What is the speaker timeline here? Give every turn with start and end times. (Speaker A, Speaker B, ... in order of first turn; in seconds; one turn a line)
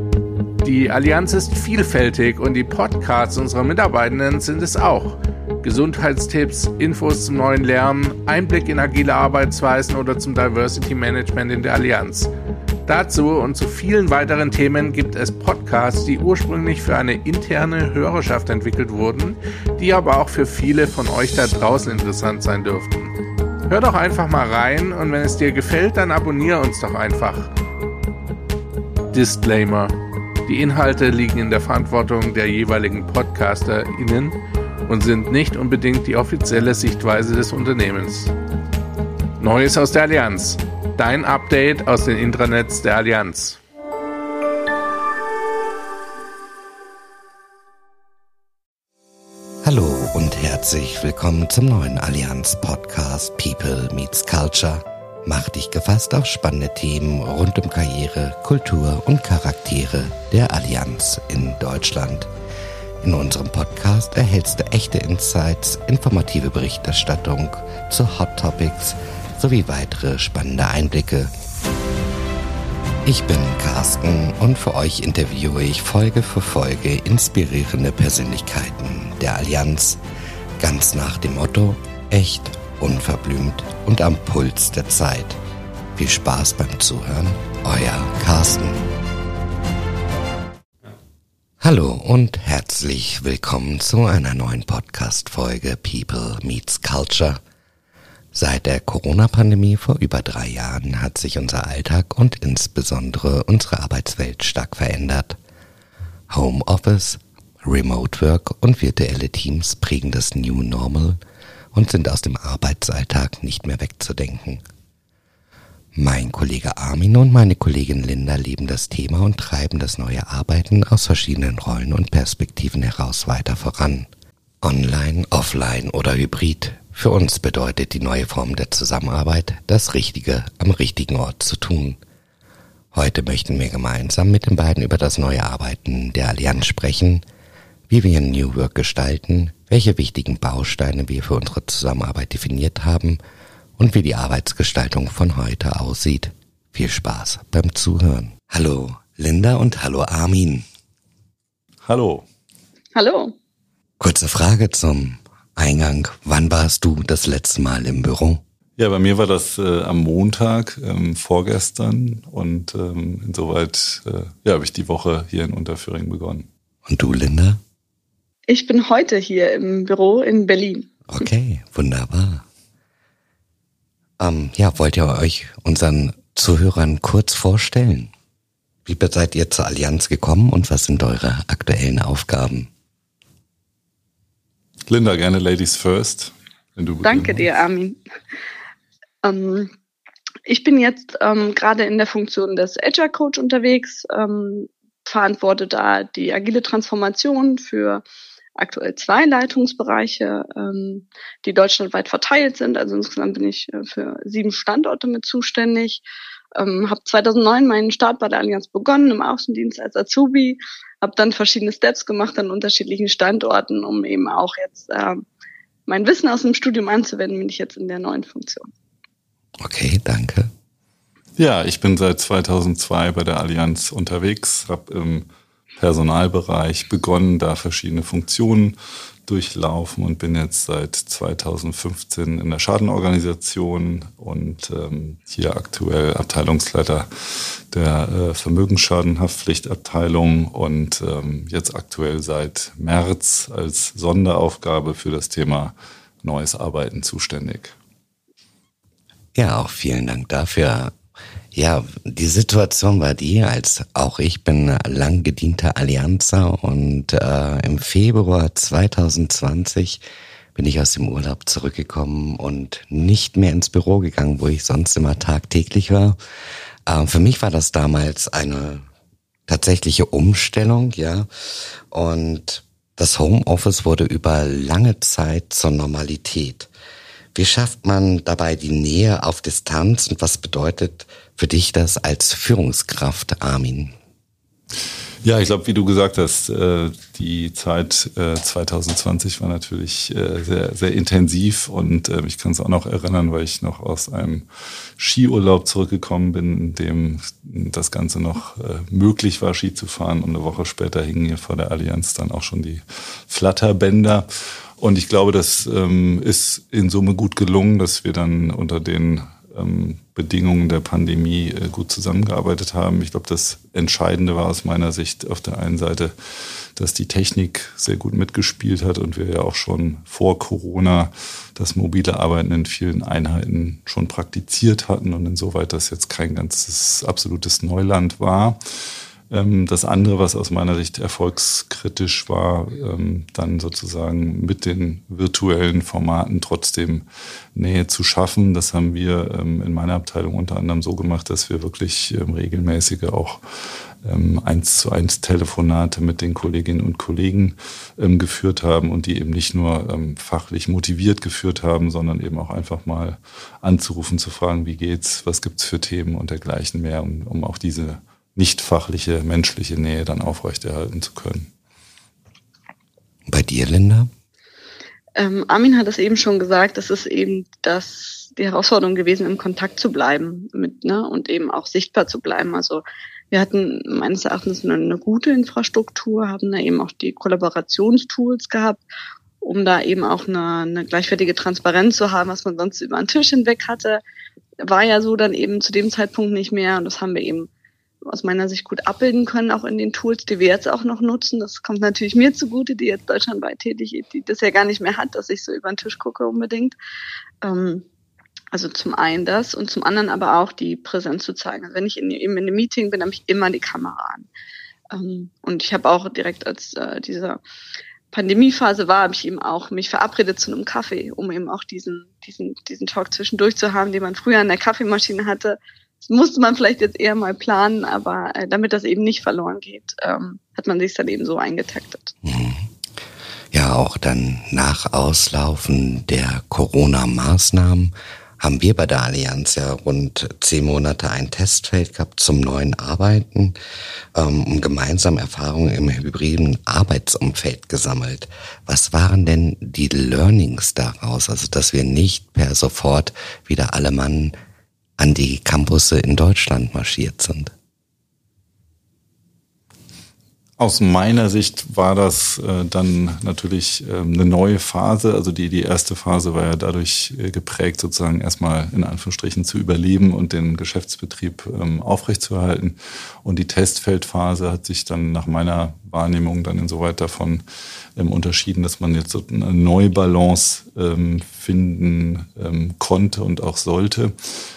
Speaker A: 0.6-12.3
Speaker A: 12.9-23.1
Speaker A: 23.7-27.5
Speaker A: 29.1-29.9
Speaker A: 30.5-34.4
Speaker A: 34.9-38.3
Speaker A: 39.4-43.6
Speaker B: 49.6-62.3
Speaker B: 63.0-71.3
Speaker B: 73.0-80.0
Speaker B: 80.6-85.4
Speaker B: 86.0-88.9
Speaker B: 91.6-97.4
Speaker B: 98.3-105.4
Speaker B: 106.3-111.2
Speaker B: 111.7-114.6
Speaker B: 116.0-124.1
Speaker B: 124.6-132.0
Speaker B: 132.9-137.2
Speaker B: 137.9-143.2
Speaker B: 143.8-150.6
Speaker C: 151.8-152.2
Speaker D: 152.9-153.3
Speaker B: 154.0-158.4
Speaker C: 158.8-166.5
Speaker B: 166.9-167.6
Speaker D: 168.5-170.9
Speaker B: 171.1-172.4
Speaker B: 174.2-178.1
Speaker B: 178.9-182.7
Speaker C: 184.9-187.5
Speaker D: 187.0-188.0
Speaker D: 189.2-189.7
Speaker D: 190.5-198.0
Speaker D: 198.6-215.2
Speaker D: 215.9-218.7
Speaker B: 219.6-220.5
Speaker C: 221.4-228.8
Speaker C: 229.3-247.8
Speaker B: 249.3-250.9
Speaker B: 251.5-260.0
Speaker B: 260.6-266.2
Speaker B: 266.9-268.9
Speaker B: 269.5-271.3
Speaker B: 271.9-276.7
Speaker B: 277.4-283.9
Speaker C: 285.2-294.5
Speaker C: 295.0-304.2
Speaker C: 304.8-316.1
Speaker C: 316.8-328.6
Speaker C: 329.3-343.4
Speaker C: 344.0-361.5
Speaker B: 363.3-364.1
Speaker D: 365.2-378.8
Speaker D: 379.4-384.0
Speaker D: 384.6-387.5
Speaker D: 388.1-396.8
Speaker D: 397.4-397.9
Speaker D: 398.5-404.3
Speaker D: 404.9-407.4
Speaker D: 408.1-422.1
Speaker B: 422.2-422.7
Speaker B: 423.5-433.6
Speaker B: 434.1-444.3
Speaker B: 445.0-447.5
Speaker C: 450.6-467.4
Speaker C: 468.0-474.1